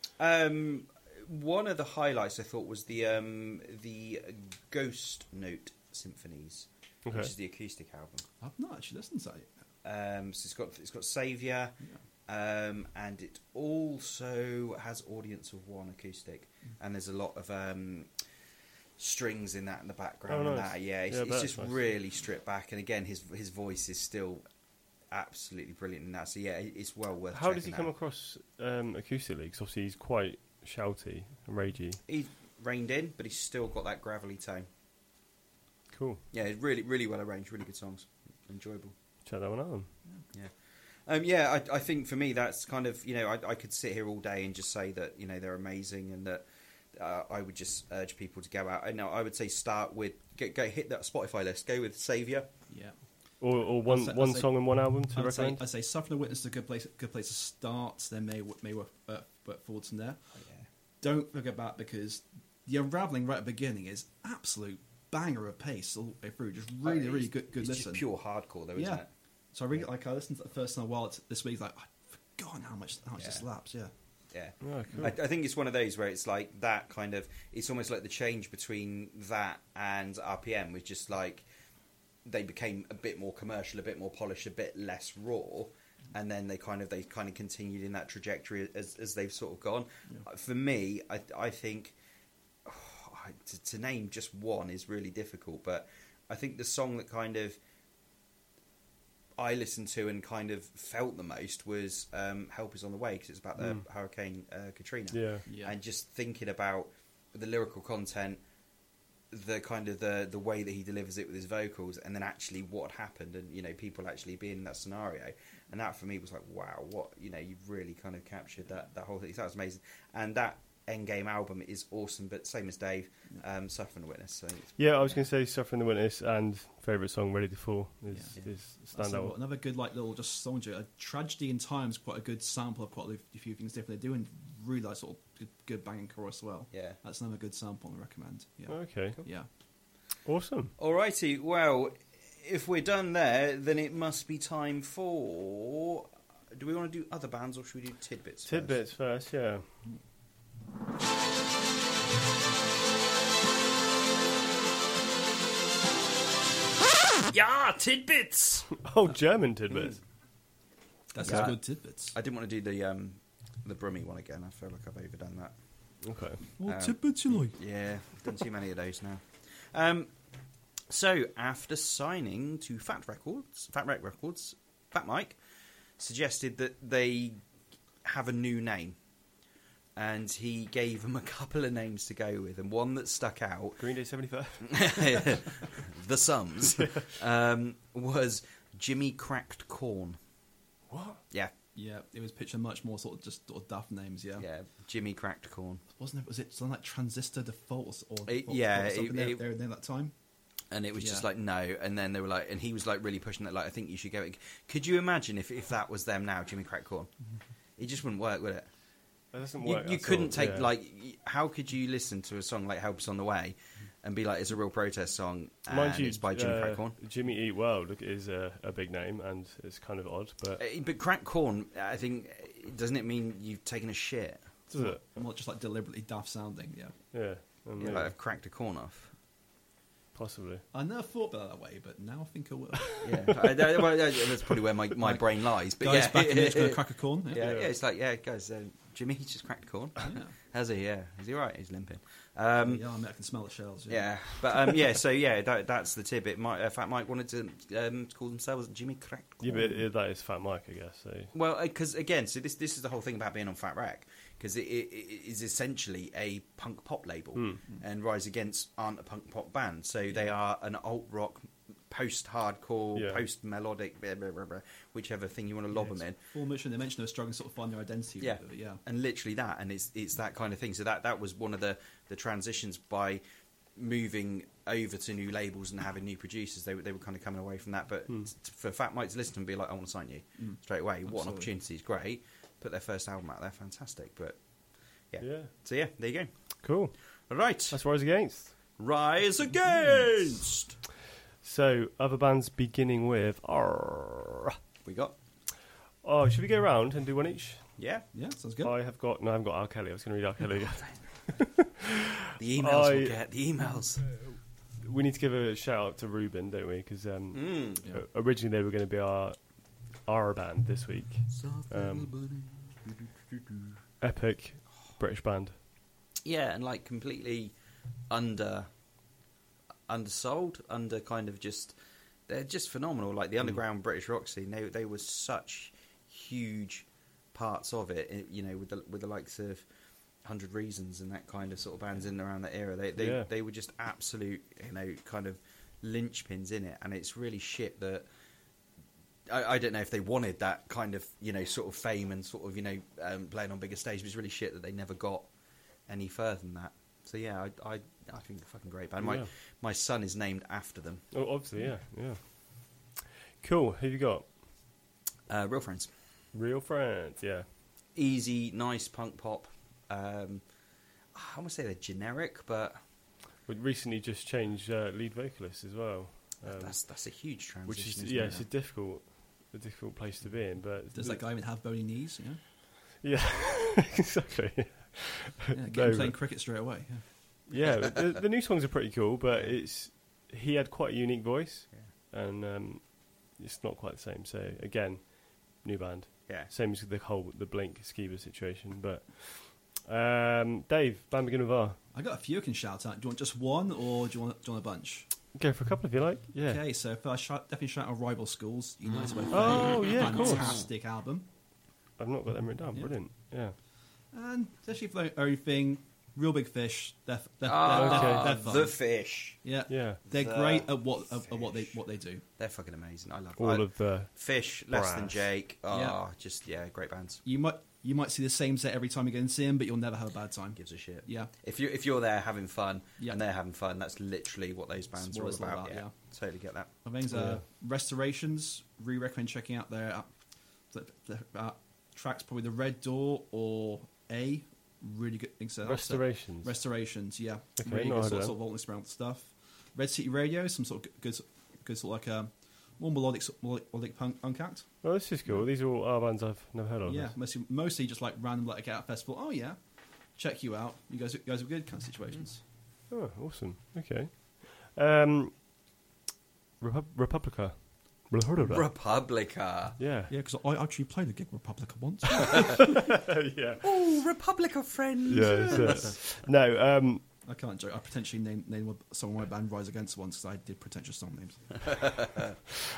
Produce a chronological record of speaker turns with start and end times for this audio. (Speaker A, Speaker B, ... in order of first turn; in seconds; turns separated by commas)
Speaker A: 0.2-8.2, Speaker B: 7.0-7.3, Speaker C: 8.4-9.5, Speaker A: 9.8-18.1, Speaker A: 19.0-24.4, Speaker B: 20.3-21.8, Speaker A: 25.1-27.9, Speaker B: 27.3-32.0, Speaker A: 32.1-34.7, Speaker B: 35.9-36.2, Speaker A: 36.3-38.9, Speaker B: 39.2-39.9, Speaker A: 41.0-52.5, Speaker C: 52.7-53.0, Speaker B: 53.4-55.6, Speaker C: 53.8-60.2, Speaker A: 60.4-60.6, Speaker C: 61.0-68.0, Speaker A: 66.8-69.1, Speaker C: 68.7-73.9, Speaker A: 73.2-73.4, Speaker A: 74.3-81.5, Speaker B: 74.6-75.1, Speaker A: 82.2-92.0, Speaker A: 92.6-97.6, Speaker A: 99.4-108.4, Speaker B: 105.1-105.4, Speaker C: 105.5-105.8, Speaker A: 109.3-124.8, Speaker B: 124.8-129.3, Speaker C: 128.1-128.4, Speaker C: 128.9-139.5, Speaker A: 136.7-137.0, Speaker B: 138.7-139.2, Speaker B: 140.2-140.7, Speaker A: 140.8-148.8, Speaker B: 148.5-149.7, Speaker A: 157.3-158.7, Speaker B: 158.8-160.0, Speaker C: 161.1-162.1, Speaker A: 161.2-161.6, Speaker A: 162.1-165.5, Speaker B: 166.0-166.4, Speaker C: 166.6-167.6, Speaker A: 166.6-170.1, Speaker A: 170.9-175.4, Speaker A: 176.0-177.4, Speaker A: 178.0-179.0, Speaker A: 179.9-183.8, Speaker B: 183.8-185.4, Speaker A: 184.6-190.2, Speaker B: 190.9-191.2, Speaker C: 191.7-194.4, Speaker A: 194.4-195.8, Speaker C: 195.9-200.1, Speaker A: 198.2-199.4, Speaker A: 200.7-207.1, Speaker C: 201.0-201.2, Speaker A: 207.8-208.7, Speaker B: 209.3-210.7, Speaker A: 209.6-216.9, Speaker B: 215.7-220.6, Speaker A: 220.6-224.4, Speaker B: 224.7-225.0, Speaker C: 224.7-226.9, Speaker B: 227.1-228.1, Speaker A: 227.8-229.1, Speaker B: 230.1-230.6, Speaker C: 230.7-233.4, Speaker A: 233.0-242.8, Speaker C: 235.0-237.5, Speaker B: 237.4-237.7, Speaker C: 240.0-240.3, Speaker C: 242.6-244.8, Speaker A: 243.9-249.6, Speaker B: 249.4-251.3, Speaker C: 249.5-249.8, Speaker A: 251.3-266.1, Speaker B: 262.9-263.2, Speaker C: 265.7-268.8, Speaker A: 268.2-273.2, Speaker A: 273.8-284.4, Speaker C: 280.4-281.5, Speaker A: 285.1-286.3, Speaker B: 285.2-285.5, Speaker B: 286.6-286.9, Speaker A: 287.3-287.8, Speaker B: 287.7-288.6, Speaker A: 288.8-290.8, Speaker B: 291.4-294.6, Speaker A: 294.8-295.2, Speaker B: 296.0-297.7, Speaker A: 297.8-298.1, Speaker C: 298.1-298.7, Speaker B: 298.6-303.1, Speaker A: 302.4-304.0, Speaker B: 304.1-309.4, Speaker A: 307.3-307.8, Speaker B: 309.9-312.1, Speaker A: 311.3-313.7, Speaker B: 314.0-315.5, Speaker A: 316.2-317.5, Speaker A: 318.1-318.7, Speaker A: 319.9-321.8, Speaker A: 322.3-329.6, Speaker A: 330.2-338.1, Speaker B: 333.0-333.3, Speaker A: 339.3-345.3, Speaker A: 345.9-351.1, Speaker B: 349.0-349.3, Speaker B: 351.1-352.9, Speaker B: 353.4-354.3, Speaker A: 355.3-355.9, Speaker B: 356.3-357.4, Speaker A: 357.9-360.4, Speaker A: 361.1-362.8, Speaker B: 363.5-366.8, Speaker A: 366.4-368.4, Speaker B: 367.7-371.2, Speaker C: 368.0-368.4, Speaker C: 370.9-372.4, Speaker B: 373.0-376.1, Speaker C: 375.5-377.0, Speaker B: 377.5-391.8, Speaker A: 377.6-378.1, Speaker C: 391.9-395.1, Speaker B: 395.3-396.6, Speaker C: 396.4-401.3, Speaker B: 399.3-400.5, Speaker B: 402.0-403.5, Speaker C: 404.1-408.7, Speaker A: 407.4-409.4, Speaker B: 407.7-408.6, Speaker C: 409.4-412.2, Speaker B: 409.7-410.0, Speaker A: 410.1-410.7, Speaker A: 411.2-411.7, Speaker A: 412.4-417.2, Speaker B: 413.4-414.1, Speaker B: 414.7-415.2, Speaker C: 415.7-416.0, Speaker C: 417.2-421.3, Speaker A: 420.6-426.7, Speaker C: 425.0-425.9, Speaker C: 426.8-430.1, Speaker B: 427.1-427.4, Speaker C: 430.7-444.7, Speaker B: 435.6-436.5, Speaker B: 437.6-438.3, Speaker B: 444.8-447.1, Speaker C: 446.8-449.6, Speaker C: 450.1-452.4, Speaker B: 452.9-455.4, Speaker B: 456.6-458.7, Speaker A: 458.4-459.8, Speaker B: 459.8-460.1, Speaker C: 460.1-462.8, Speaker B: 462.4-463.6, Speaker A: 463.6-465.9, Speaker B: 465.1-467.0, Speaker C: 465.5-465.8, Speaker C: 467.2-471.7, Speaker A: 471.6-472.3